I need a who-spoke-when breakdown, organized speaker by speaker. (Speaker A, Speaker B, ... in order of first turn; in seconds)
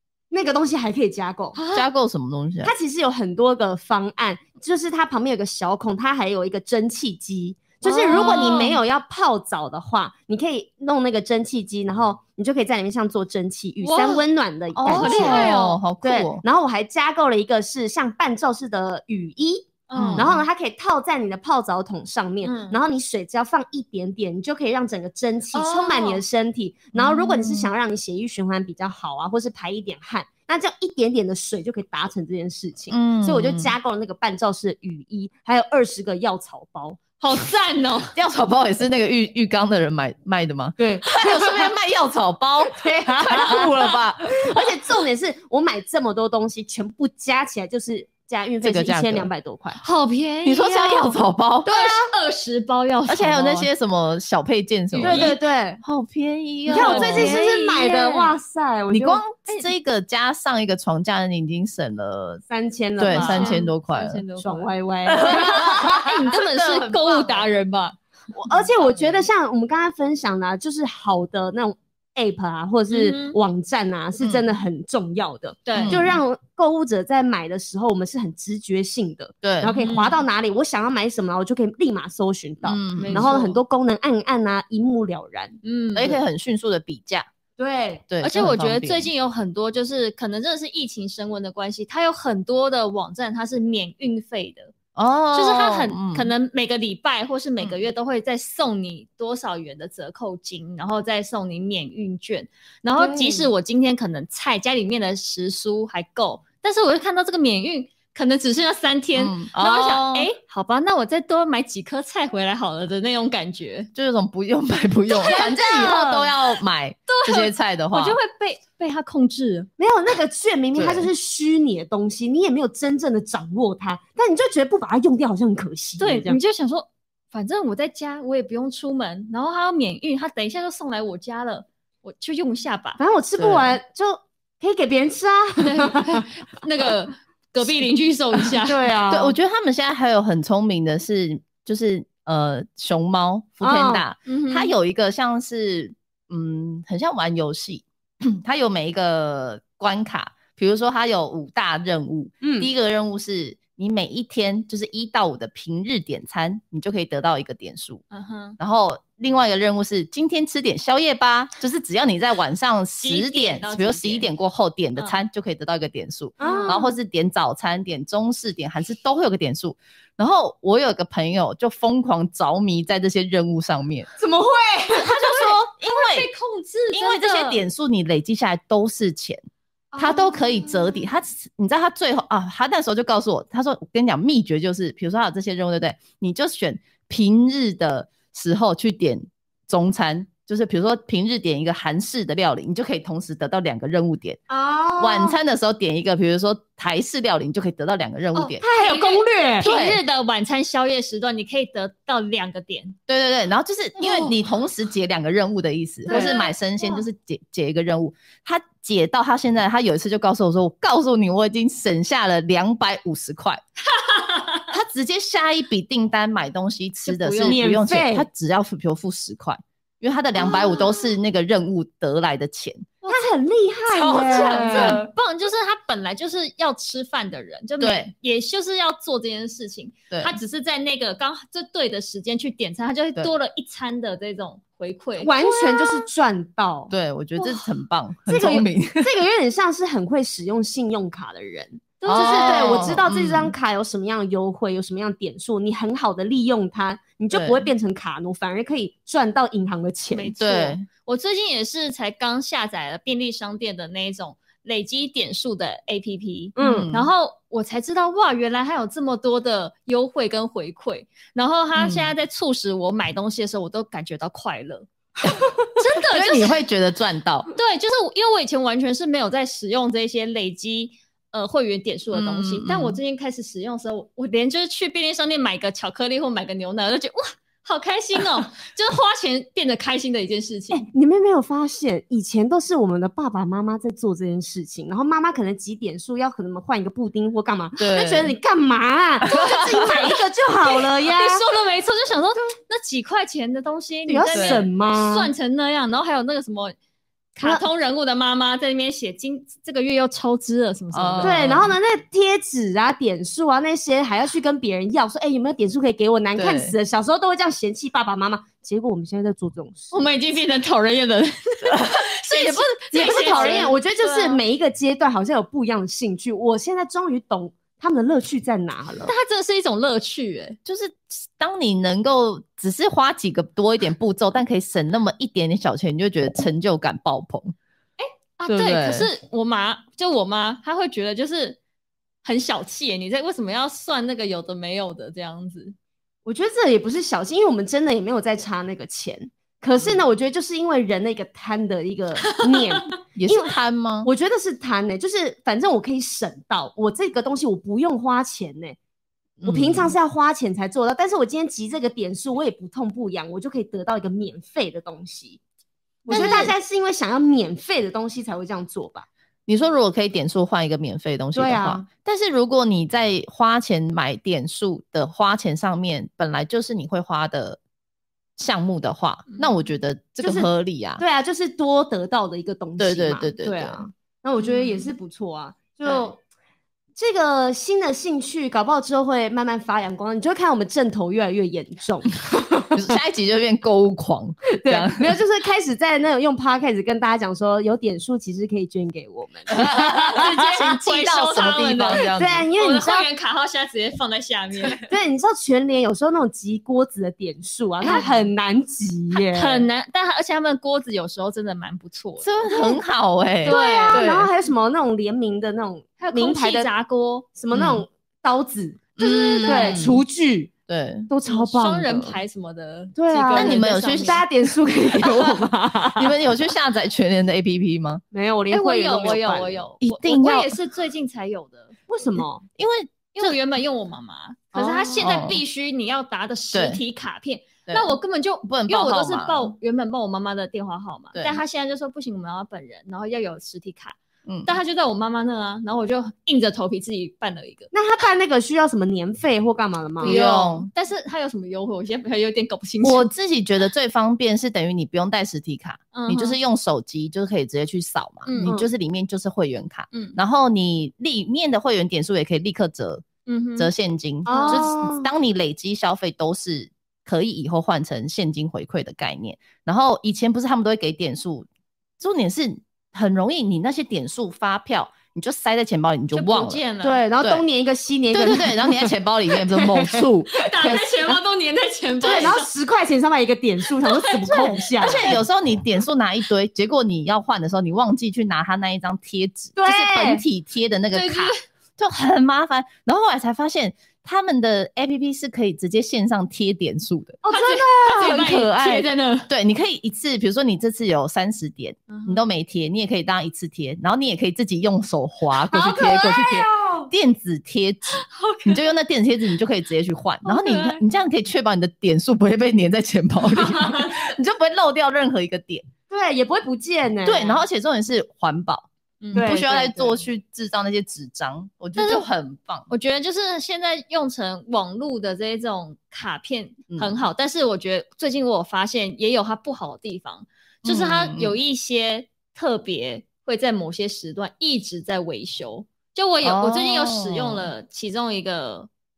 Speaker A: 0.3-1.6, 2.6-37.0, 40.8-41.7, 42.7-49.8, 51.7-52.1, 55.0-55.8, 56.7-59.2, 62.5-63.6, 64.4-66.2, 68.3-85.6, 87.6-88.0, 103.0-103.5, 115.2-116.3, 119.8-126.4, 133.0-136.3, 138.6-139.4, 143.6-144.1, 152.4-152.7, 166.4-166.9, 174.2-175.3, 180.0-180.9, 194.5-195.4, 198.6-199.7, 206.1-206.4, 217.4-218.3, 223.1-225.0, 235.2-236.9, 238.3-250.3, 256.6-256.9, 280.7-291.4, 294.1-295.3, 301.2-310.0, 312.9-319.1, 336.3-343.5, 344.0-348.8, 349.4-355.4, 356.1-359.1, 361.3-361.9, 370.2-376.2, 377.0-382.8, 384.5-390.8, 392.1-393.1, 394.9-399.7, 402.5-402.8, 403.4-406.7, 407.4-410.5, 411.1-412.2, 413.0-416.1, 418.1-419.6, 421.9-422.4, 424.5-425.1, 437.7-440.2, 448.4-448.7, 454.3-455.1, 466.8-470.1, 472.0-475.1, 479.6-480.2, 487.2-488.3, 495.5-496.9, 505.9-507.4, 509.1-510.0
Speaker B: 1.6-1.9, 7.8-8.8, 13.8-14.2, 14.9-15.8, 19.9-20.4, 22.4-22.8, 25.5-26.2, 37.2-38.1, 49.8-53.7, 54.9-55.4, 56.7-58.4, 63.1-68.0, 72.9-73.4, 75.7-76.0, 79.8-80.2, 83.0-83.6, 85.6-86.2, 88.2-94.7, 95.3-113.9, 115.1-116.2, 117.1-119.7, 126.0-133.0, 135.6-138.9, 144.3-144.7, 158.1-158.6, 163.0-164.3, 166.4-166.8, 175.1-177.6, 198.3-203.0, 204.0-204.3, 206.1-207.0, 213.9-214.7, 217.1-217.6, 220.4-221.0, 223.0-223.3, 224.1-236.1, 242.0-243.0, 250.1-264.9, 265.8-266.6, 267.5-280.9, 289.4-296.8, 297.4-301.5, 309.9-314.4, 319.1-320.6, 328.0-331.6, 332.2-335.8, 342.4-342.8, 356.1-356.5, 374.4-374.9, 389.8-394.9, 397.8-398.2, 399.1-402.7, 403.4-404.1, 406.0-407.3, 409.0-409.9, 411.3-414.2, 418.5-421.8, 423.1-437.7, 440.0-443.1, 445.9-446.4, 448.3-448.6, 449.9-450.2, 453.3-453.7, 454.3-454.7, 466.1-467.0, 470.4-472.5, 473.8-475.2, 480.9-481.4, 487.3-489.3, 491.9-492.2, 497.9-498.7, 500.2-500.8, 503.2-504.1, 509.0-509.4, 511.8-512.1, 512.7-528.7
Speaker C: 1.7-2.7, 8.2-8.4, 14.8-16.4, 19.9-20.3, 26.9-27.7, 32.9-33.7, 38.1-44.7, 48.6-49.3, 50.4-51.7, 53.1-57.5, 58.9-62.4, 63.0-64.2, 65.1-67.5, 68.5-69.1, 74.2-74.6, 75.7-76.2, 79.4-79.8, 82.6-83.3, 86.0-87.3, 88.1-89.1, 95.0-96.3, 109.2-110.3, 113.9-118.2, 120.8-121.1, 133.4-133.8, 139.1-158.0, 158.6-174.1, 175.0-176.3, 176.9-179.4, 180.0-194.4, 195.0-198.6, 199.6-200.0, 203.1-213.6, 214.7-222.9, 223.9-225.1, 227.8-228.1, 230.1-230.4, 236.9-239.1, 242.1-243.5, 247.3-247.7, 250.4-250.9, 256.6-257.1, 261.8-262.1, 266.0-267.5, 272.1-273.0, 287.8-288.4, 289.4-289.8, 294.3-294.6, 300.9-301.7, 306.4-306.8, 311.6-313.8, 320.6-327.6, 328.5-329.1, 343.2-344.1, 349.4-349.9, 356.1-356.5, 359.5-367.6, 368.4-371.0, 372.8-373.8, 382.7-385.2, 389.5-392.5, 402.2-404.3, 407.5-407.8, 409.0-410.0, 410.7-411.1, 413.3-414.2, 414.9-415.3, 416.0-418.0, 419.8-420.6, 422.6-423.4, 425.0-425.4, 426.5-426.8, 427.7-429.5, 431.1-431.4, 434.3-434.6, 440.0-440.7, 442.8-453.1, 453.6-461.5, 462.0-466.6, 468.1-470.9, 472.1-472.4, 474.8-487.2, 488.0-505.7, 507.1-512.7, 520.6-521.4, 526.2-527.5